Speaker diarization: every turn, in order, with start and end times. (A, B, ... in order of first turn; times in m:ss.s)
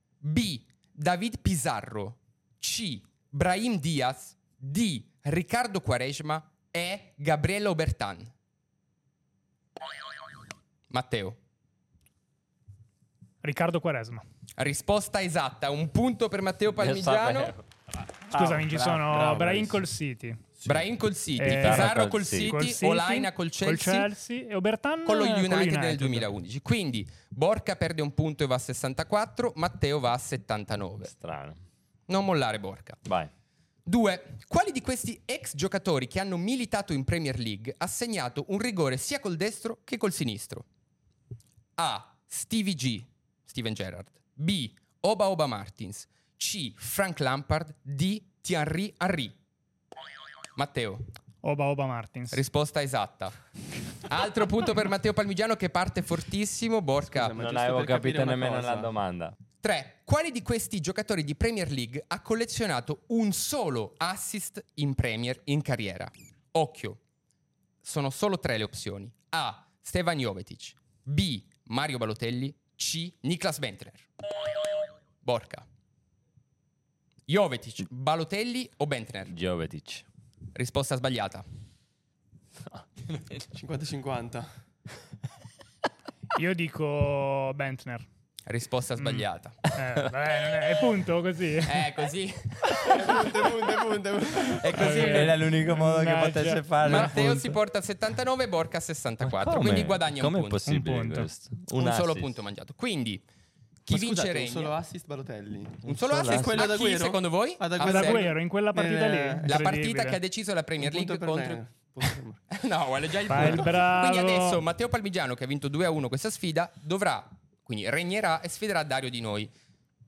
0:00.2-0:08.3 A
0:10.9-0:11.4 A
0:13.4-0:14.2 B
0:14.6-0:17.5 A
0:16.7-0:17.6 C
0:18.3-0:20.4 B
0:18.3-0:19.8 D
0:20.6-0:24.1 A
0:21.4-0:26.3 B
0:21.4-0:22.6 C
0:25.0-0:31.1 A
0:31.1-0:31.6 C
0:32.1-0:33.0 A
0:33.0-0:33.3 C
0:33.8-0:40.6 A
0:41.8-0:49.3 A
0:50.6-0:51.1 A
0:51.4-0:52.4 B
0:52.3-0:53.4 A
0:54.0-0:57.3 A
0:57.1-0:58.9 D
0:57.4-0:59.3 C
0:59.6-1:07.0 A
1:07.8-1:14.1 A
1:15.2-1:15.6 A
1:17.3-1:19.3 A
1:19.3-1:20.0 C
1:20.5-1:21.4 A
1:23.5-1:24.5 D
1:26.4-1:28.1 B
1:28.4-1:29.7 A
1:29.0-1:31.9 B
1:31.6-1:33.3 A
1:32.9-1:34.7 D
1:34.4-1:35.5 A
1:34.8-1:37.6 C
1:34.8-1:37.1 B
1:36.8-1:40.6 A
1:39.2-1:42.3 C
1:40.7-1:41.3 B
1:41.7-1:43.2 A
1:43.8-1:44.8 A
1:43.9-1:49.6 D
1:45.8-1:48.3 A
1:47.8-1:50.2 B
1:49.4-1:51.6 A
1:50.8-1:52.4 D
1:52.5-1:59.5 A
1:53.2-1:54.6 B